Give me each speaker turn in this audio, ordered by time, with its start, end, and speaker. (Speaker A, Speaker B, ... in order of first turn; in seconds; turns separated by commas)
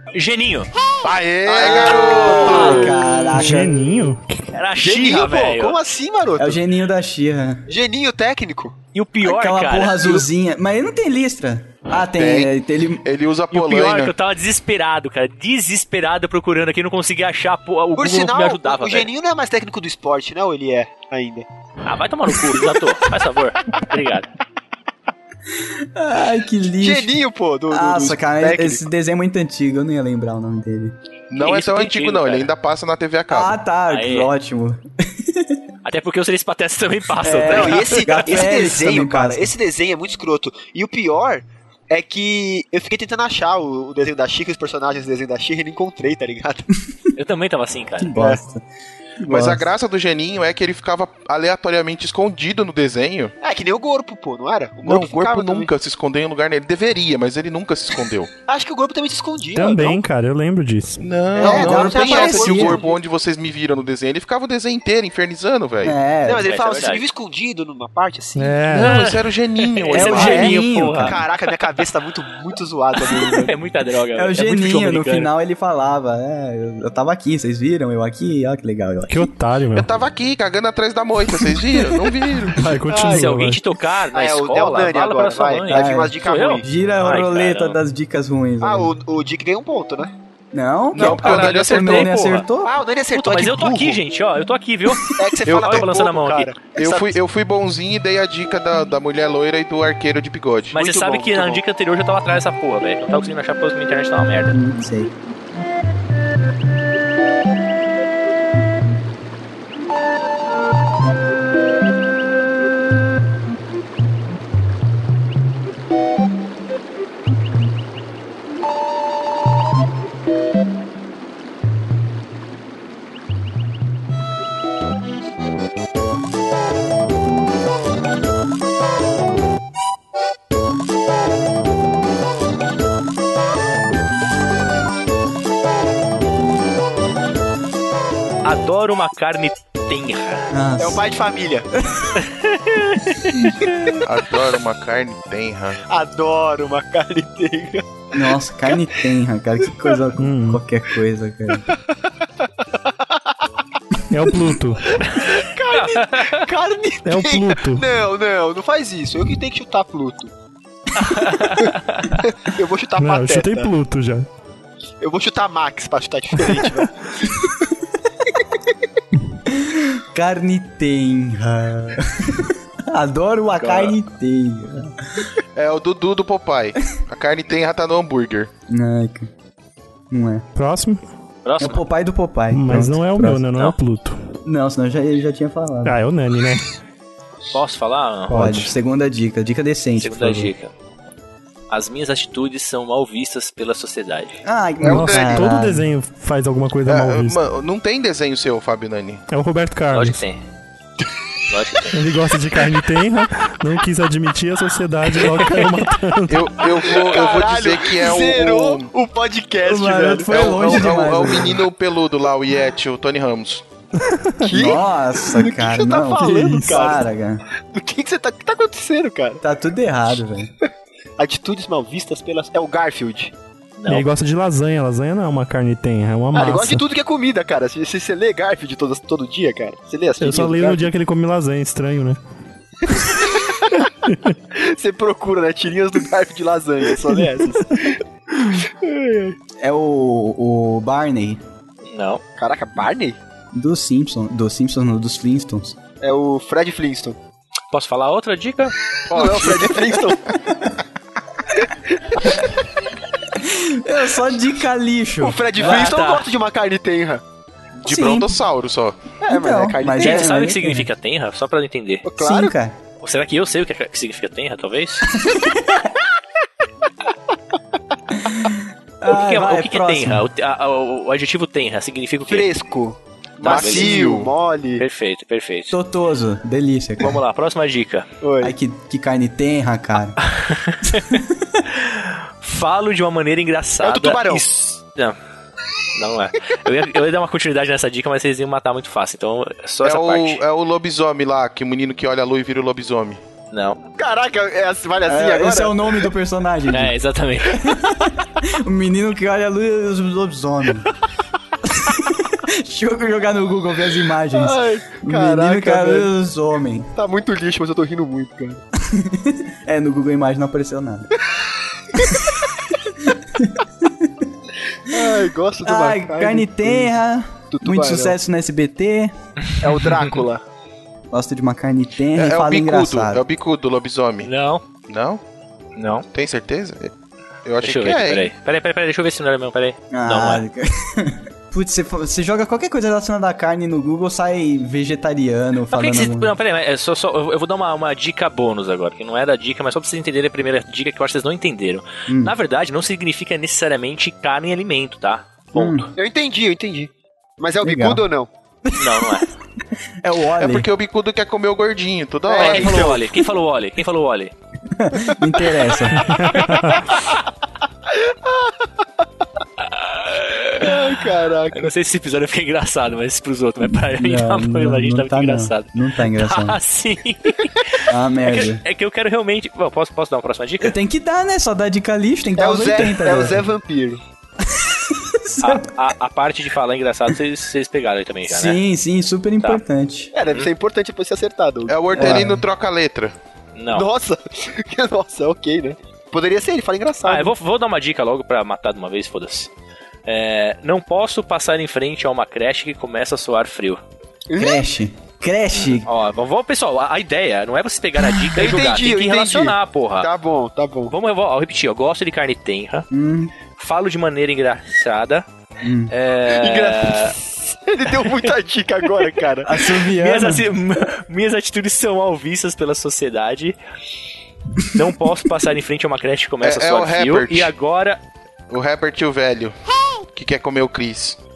Speaker A: 0.1-0.7, Speaker B: 1.0-3.0, Speaker C: 1.4-3.0, Speaker A: 1.9-3.0, Speaker D: 2.4-3.8, Speaker E: 3.3-4.5, Speaker A: 4.5-5.8, Speaker C: 4.8-6.6, Speaker D: 6.4-7.7, Speaker C: 7.7-8.8, Speaker A: 8.9-10.2, Speaker D: 9.2-13.0, Speaker B: 12.1-14.1, Speaker A: 13.5-19.1, Speaker C: 17.9-21.5, Speaker A: 21.8-24.3, Speaker D: 25.9-27.2, Speaker C: 26.8-28.8, Speaker D: 27.7-30.9, Speaker B: 31.3-33.5, Speaker A: 31.4-32.5, Speaker D: 33.3-35.6, Speaker A: 33.9-34.3, Speaker A: 35.8-38.2, Speaker D: 37.2-39.5, Speaker C: 37.5-46.7, Speaker A: 47.1-48.2, Speaker D: 48.0-48.6, Speaker D: 49.2-49.7, Speaker B: 49.3-53.3, Speaker C: 53.4-55.7, Speaker B: 54.8-58.3, Speaker C: 58.5-60.0, Speaker E: 59.5-61.0, Speaker B: 61.0-66.0, Speaker C: 61.3-63.0, Speaker D: 61.4-62.8, Speaker D: 65.8-66.5, Speaker C: 66.2-68.6, Speaker A: 66.4-67.0, Speaker E: 68.3-69.0, Speaker B: 68.7-70.6, Speaker A: 68.8-71.8, Speaker D: 69.9-71.2, Speaker C: 70.1-73.5, Speaker A: 73.0-75.3, Speaker D: 74.1-79.3, Speaker E: 79.1-79.9, Speaker B: 79.7-82.8, Speaker E: 82.5-83.6, Speaker A: 82.9-87.8, Speaker C: 82.9-83.3, Speaker C: 84.1-86.6, Speaker D: 85.7-88.9, Speaker C: 88.6-90.1, Speaker D: 90.5-92.7, Speaker B: 90.9-92.1, Speaker A: 90.9-92.5, Speaker C: 92.6-94.0, Speaker A: 93.1-96.5, Speaker C: 95.1-97.2, Speaker B: 95.5-95.9, Speaker B: 96.8-100.8, Speaker A: 100.7-104.5, Speaker C: 100.7-101.6, Speaker D: 104.5-105.1, Speaker A: 138.4-140.5, Speaker D: 140.5-141.0, Speaker C: 140.8-141.7, Speaker B: 144.0-145.8, Speaker C: 145.9-148.8, Speaker D: 148.1-151.7, Speaker E: 150.2-150.6, Speaker C: 152.8-153.3, Speaker E: 154.1-154.9, Speaker C: 154.9-160.3, Speaker A: 155.7-156.4, Speaker E: 157.0-157.8, Speaker A: 161.0-162.1, Speaker C: 161.6-163.7, Speaker E: 163.0-164.3, Speaker C: 165.0-167.2, Speaker D: 169.5-174.9, Speaker A: 173.6-173.9, Speaker B: 175.6-178.5, Speaker D: 178.7-179.3, Speaker D: 180.1-180.4, Speaker E: 180.6-181.0, Speaker A: 181.4-181.8, Speaker D: 181.6-183.4, Speaker E: 182.5-184.2, Speaker D: 184.4-186.0, Speaker E: 185.8-186.7, Speaker A: 187.5-188.7, Speaker D: 188.3-190.5, Speaker A: 190.0-190.7, Speaker A: 191.7-194.4, Speaker D: 194.4-195.8, Speaker E: 194.8-197.4, Speaker B: 194.9-195.4, Speaker B: 196.8-199.2, Speaker E: 199.3-200.2, Speaker A: 199.9-200.4, Speaker A: 201.5-202.0, Speaker E: 201.9-206.6, Speaker B: 206.3-208.9, Speaker C: 206.8-210.4, Speaker D: 209.6-211.6, Speaker B: 210.3-213.6, Speaker E: 214.0-214.4, Speaker C: 214.4-217.1, Speaker D: 214.5-217.4, Speaker E: 216.3-216.8, Speaker C: 217.7-219.4, Speaker D: 219.4-220.5, Speaker C: 221.2-223.3, Speaker A: 223.8-224.1, Speaker E: 223.9-226.8, Speaker C: 226.3-230.9, Speaker E: 230.2-232.2, Speaker C: 233.2-233.8, Speaker E: 234.1-234.3, Speaker C: 234.5-239.4, Speaker D: 239.6-241.4, Speaker A: 241.9-242.2, Speaker C: 242.4-243.2, Speaker D: 243.5-245.7, Speaker C: 246.0-247.2, Speaker A: 247.7-248.7, Speaker B: 249.1-249.8, Speaker C: 249.1-250.2, Speaker C: 251.9-252.5, Speaker D: 253.3-255.8, Speaker C: 255.2-257.2, Speaker A: 255.5-256.2, Speaker B: 257.8-259.0, Speaker D: 257.9-258.3, Speaker D: 259.2-260.9, Speaker C: 259.3-260.6, Speaker A: 260.0-262.0, Speaker C: 262.0-262.5, Speaker D: 262.2-262.7, Speaker A: 263.0-265.1, Speaker D: 265.1-265.9, Speaker D: 268.2-270.2, Speaker A: 269.1-272.5, Speaker C: 272.3-274.8, Speaker B: 273.4-274.3, Speaker A: 273.4-274.1, Speaker A: 274.8-275.7, Speaker D: 275.7-277.2, Speaker A: 277.0-278.1, Speaker C: 278.2-278.6, Speaker D: 278.4-280.2, Speaker A: 280.3-285.1, Speaker C: 283.8-284.4, Speaker A: 285.9-290.4, Speaker B: 289.8-293.2, Speaker A: 293.5-293.8, Speaker C: 293.9-296.0, Speaker D: 295.1-296.9, Speaker A: 296.7-297.7, Speaker D: 297.5-300.9, Speaker D: 301.6-306.9, Speaker C: 304.3-306.1, Speaker C: 306.9-308.6, Speaker D: 308.8-311.1, Speaker D: 313.0-314.2, Speaker C: 314.9-316.9, Speaker D: 315.6-319.1, Speaker C: 317.5-318.2, Speaker C: 319.6-320.4, Speaker D: 321.1-323.2, Speaker B: 322.1-324.3, Speaker A: 324.2-324.6, Speaker B: 324.9-325.2, Speaker A: 325.8-326.1, Speaker B: 326.1-326.9, Speaker B: 327.4-328.3, Speaker A: 327.6-330.4, Speaker D: 329.9-336.3, Speaker A: 335.7-345.9, Speaker D: 342.1-342.3, Speaker D: 345.5-345.9, Speaker C: 345.9-348.3, Speaker D: 347.6-348.0, Speaker D: 348.6-349.2, Speaker A: 348.8-349.3, Speaker D: 350.0-350.7, Speaker B: 350.4-352.9, Speaker C: 352.3-353.2, Speaker A: 352.3-354.3, Speaker D: 354.7-356.0, Speaker E: 355.9-356.8, Speaker C: 357.9-358.7, Speaker A: 359.6-370.7, Speaker C: 360.6-361.7, Speaker D: 364.0-366.6, Speaker D: 367.9-368.6, Speaker D: 370.6-373.5, Speaker C: 372.4-374.0, Speaker D: 374.5-375.7, Speaker A: 375.4-378.6, Speaker D: 378.3-380.1, Speaker C: 380.1-382.1, Speaker B: 381.7-383.1, Speaker D: 381.9-382.4, Speaker A: 383.6-383.9, Speaker C: 383.7-387.3, Speaker A: 387.0-389.5, Speaker A: 390.1-393.8, Speaker C: 394.3-394.6, Speaker D: 394.4-395.9, Speaker A: 395.6-400.1, Speaker C: 398.3-400.9, Speaker A: 400.9-402.9, Speaker D: 402.9-403.3, Speaker A: 403.5-405.2, Speaker D: 405.6-405.9, Speaker A: 405.9-407.1, Speaker C: 406.3-409.5, Speaker A: 407.9-408.3, Speaker D: 409.4-410.4, Speaker A: 409.9-413.6, Speaker A: 414.6-418.0, Speaker B: 416.4-417.5, Speaker B: 418.5-421.2